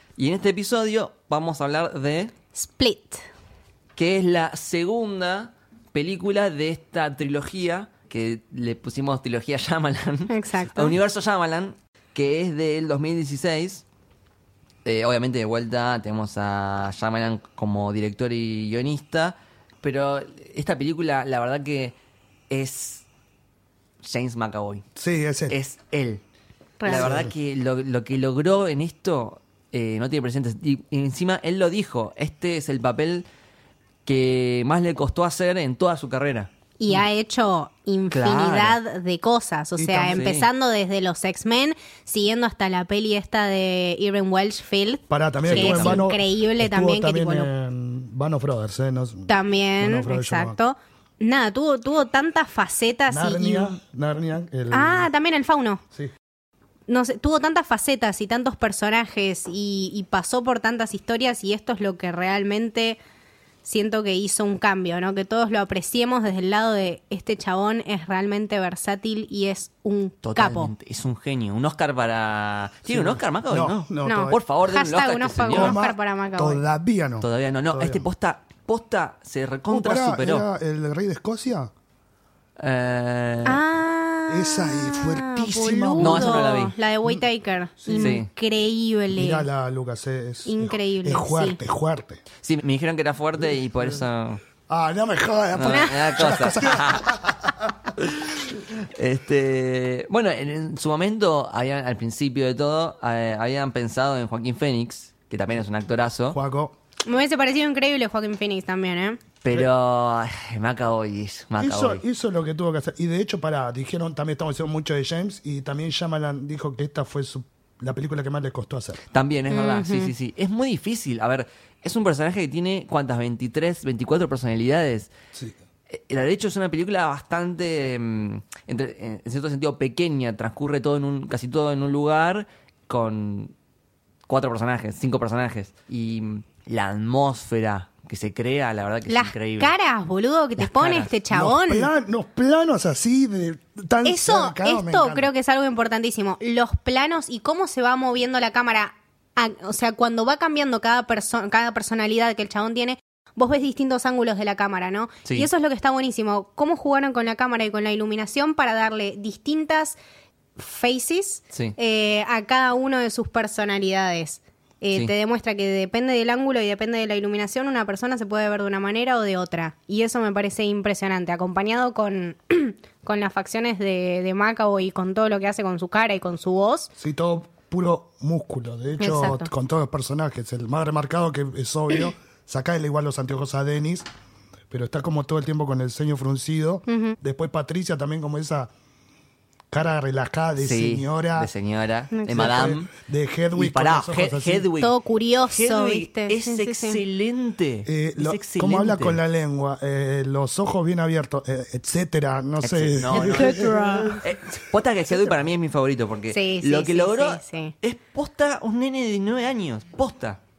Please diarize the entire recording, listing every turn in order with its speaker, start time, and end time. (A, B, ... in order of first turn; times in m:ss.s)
0:00.2-0:02.3 A
0:02.5-0:03.2 B
0:04.0-0:13.8 A
0:10.3-0:11.0 B
0:14.8-0:22.0 A
0:22.5-0:23.0 A
0:24.0-0:24.8 A
0:25.0-0:25.6 C
0:25.5-0:26.2 A
0:26.8-0:27.1 B
0:26.8-0:27.3 C
0:26.8-0:33.3 A
0:34.0-0:37.0 A
0:36.8-0:47.5 B
0:38.1-0:38.8 A
0:39.8-0:40.3 C
0:40.1-0:40.5 A
0:45.1-0:50.6 C
0:45.4-0:46.0 A
0:49.3-0:53.8 B
0:53.1-0:55.1 C
0:54.7-0:55.8 B
0:56.9-1:03.0 B
1:03.6-1:10.7 B
1:10.2-1:15.8 A
1:12.9-1:14.4 C
1:14.0-1:16.6 B
1:15.5-1:18.0 C
1:17.2-1:20.5 A
1:19.7-1:21.7 C
1:22.6-1:23.6 A
1:23.4-1:29.5 B
1:24.3-1:27.2 C
1:26.0-1:26.8 A
1:27.8-1:28.2 C
1:27.9-1:28.3 A
1:29.1-1:32.2 C
1:30.4-1:31.6 B
1:32.4-1:34.4 A
1:34.7-1:37.7 C
1:35.5-1:37.1 A
1:35.6-1:36.0 B
1:38.8-1:46.4 A
1:46.3-1:46.8 C
1:47.0-1:49.2 B
1:49.4-1:52.0 A
1:51.6-1:59.0 C
1:59.1-2:05.1 A
1:59.5-2:00.1 B
2:05.9-2:13.5 A
2:14.3-2:19.7 A
2:19.1-2:21.9 B
2:20.6-2:21.2 A
2:21.3-2:25.3 C
2:24.0-2:40.0 B
2:40.6-2:56.9 B
2:57.0-3:04.0 C
2:59.0-2:59.5 B
3:04.7-3:08.7 C
3:06.9-3:07.1 B
3:09.7-3:11.5 C
3:10.6-3:12.9 A
3:12.1-3:12.6 B
3:12.3-3:14.7 C
3:13.5-3:14.9 A
3:14.8-3:17.0 B
3:15.5-3:19.2 A
3:17.8-3:24.3 C
3:22.6-3:23.6 A
3:23.1-3:24.2 B
3:24.2-3:30.4 A
3:26.3-3:27.8 B